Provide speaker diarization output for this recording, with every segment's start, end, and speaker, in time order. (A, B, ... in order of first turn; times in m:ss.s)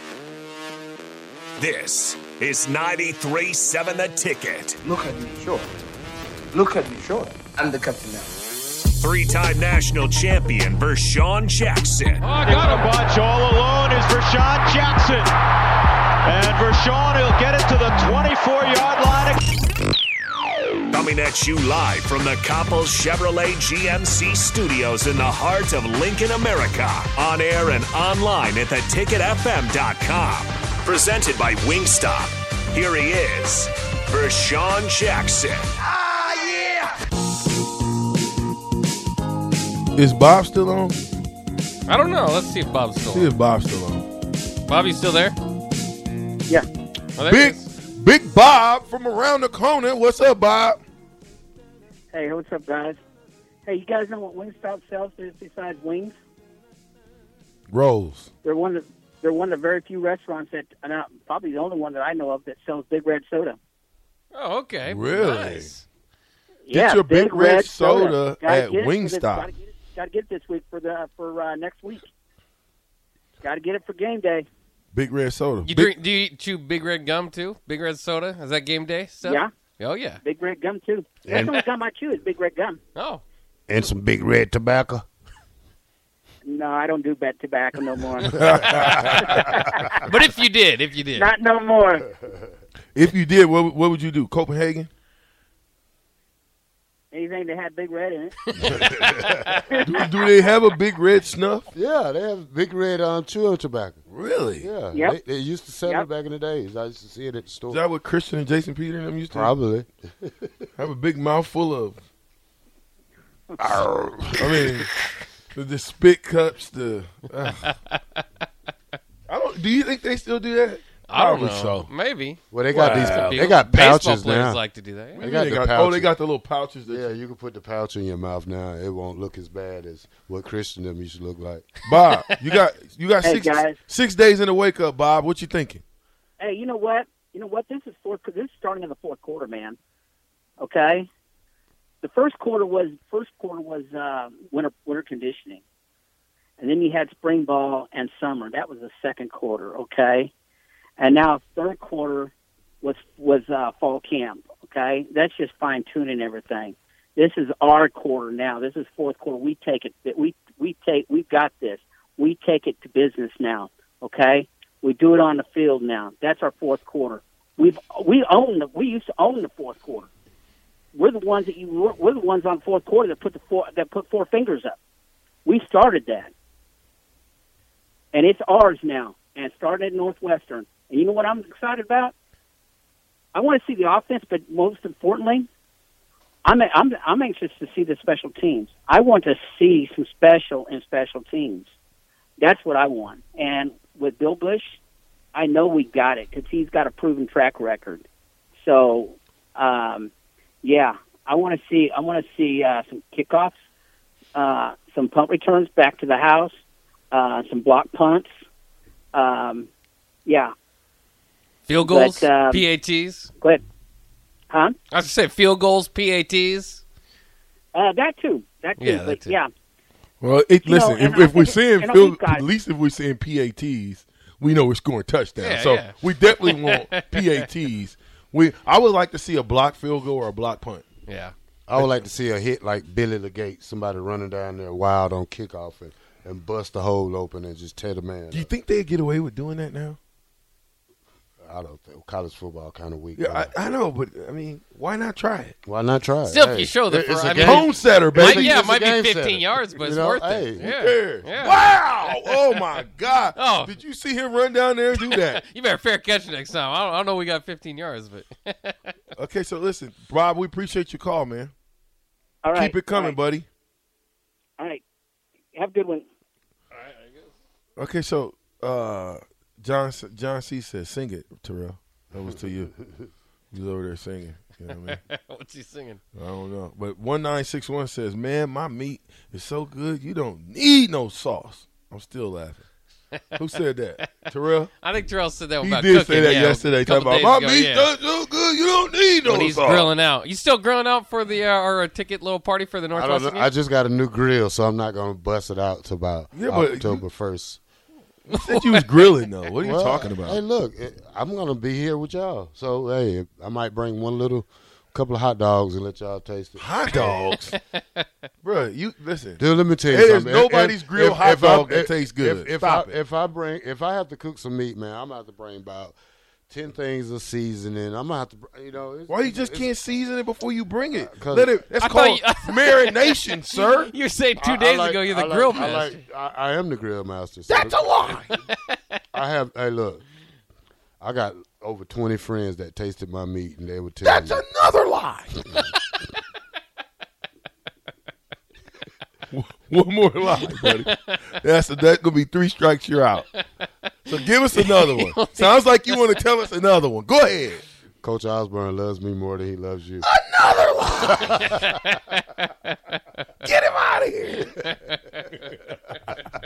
0:01.6-0:04.8 A
0:04.8-0:05.7 B
0:06.5-0:08.4 B
0:08.9-0:12.2 A
0:12.2-0:13.0 C
0:12.3-0:15.4 D
0:16.2-0:19.4 D
0:20.9-0:35.7 A
0:36.1-0:36.8 D
0:40.0-0:41.0 E
0:41.9-0:43.3 C
0:43.1-0:44.1 E
0:44.6-0:45.4 C
0:47.2-0:47.7 C
0:47.3-0:50.8 E
0:52.1-0:53.0 F
0:53.7-0:56.2 F
0:57.7-0:58.3 E
0:58.4-1:03.6 F
1:04.3-1:05.8 C
1:04.9-1:05.7 E
1:06.7-1:12.1 F
1:06.8-1:09.4 E
1:13.4-1:14.5 F
1:14.9-1:15.9 E
1:15.6-1:20.2 C
1:19.2-1:19.5 F
1:20.2-1:22.8 F
1:21.2-1:21.5 G
1:23.0-1:23.2 C
1:23.7-1:25.0 G
1:26.4-1:30.0 F
1:28.3-1:29.4 E
1:28.3-1:29.3 G
1:30.0-1:31.3 C
1:31.2-1:32.1 F
1:32.9-1:34.9 E
1:37.1-1:40.3 F
1:38.7-1:39.5 G
1:39.8-1:41.7 E
1:41.7-1:44.0 G
1:44.1-1:44.7 E
1:44.6-1:47.8 G
1:44.9-1:45.2 F
1:47.7-1:49.5 E
1:49.3-1:50.7 G
1:50.8-1:52.0 E
1:53.5-1:53.8 F
1:53.6-1:54.8 G
1:54.4-1:54.9 E
1:55.5-1:57.7 E
1:57.6-1:58.0 C
1:59.3-2:01.9 E
2:01.1-2:05.3 C
2:02.5-2:04.6 G
2:02.7-2:03.4 E
2:05.2-2:07.1 E
2:05.2-2:06.1 G
2:06.9-2:11.7 G
2:11.9-2:15.8 E
2:12.0-2:12.4 C
2:13.2-2:13.8 F
2:16.4-2:19.8 F
2:20.6-2:21.1 F
2:22.0-2:25.6 F
2:26.6-2:30.3 F
2:31.0-2:50.1 F
2:51.0-2:54.8 F
2:55.4-2:56.3 F
2:58.1-3:02.1 F
3:03.3-3:05.5 F
3:06.4-3:11.7 F
3:12.4-3:14.8 F
3:15.3-3:18.0 F
3:18.6-3:20.1 F
3:20.6-3:23.5 F
3:24.4-3:26.5 F
3:27.1-3:28.3 F
3:29.1-3:29.7 F
3:30.3-3:30.5 F
3:31.7-3:33.3 C
3:31.8-3:32.6 F
3:34.9-3:36.8 C
3:37.7-3:39.5 F
3:38.8-3:39.4 C
3:40.2-3:50.9 E
3:40.6-3:42.5 F
3:45.4-3:47.5 C
3:51.1-3:51.3 C
3:51.7-3:58.5 G
3:51.8-3:52.1 E
3:58.3-4:00.0 E
4:01.4-4:03.5 G
4:03.2-4:05.6 E
4:05.6-4:10.7 G
4:06.3-4:12.6 C
4:07.5-4:08.5 E
4:10.6-4:15.4 E
4:13.4-4:13.8 C
4:14.9-4:18.9 C
4:19.2-4:21.5 E
4:22.4-4:23.2 F
4:22.6-4:23.5 E
4:25.6-4:26.1 F
4:26.8-4:27.3 C
4:27.8-4:32.7 E
4:33.5-4:35.0 E
4:34.7-4:36.0 C
4:36.2-4:42.6 E
4:43.4-4:44.7 E
4:44.8-4:47.9 C
4:45.6-4:49.9 E
4:49.2-4:53.5 C
4:52.9-4:57.6 G
4:56.3-4:57.0 E
4:58.3-5:00.4 E
4:58.3-4:59.1 C
4:59.6-5:06.8 G
5:06.6-5:07.6 E
5:07.1-5:07.6 C
5:08.4-5:13.0 E
5:09.4-5:16.0 G
5:16.5-5:19.7 G
5:19.1-5:23.9 E
5:20.9-5:21.6 G
5:21.8-5:26.0 C
5:24.4-5:28.2 G
5:27.5-5:28.3 E
5:29.1-5:30.0 G
5:31.0-5:34.4 G
5:34.0-5:35.4 E
5:39.3-5:43.3 E
5:40.4-5:40.8 C
5:44.1-5:47.6 E
5:44.1-5:46.2 C
5:48.0-5:50.1 G
5:50.0-5:51.5 E
5:51.3-5:53.0 C
5:53.4-5:54.5 E
5:54.6-5:55.6 C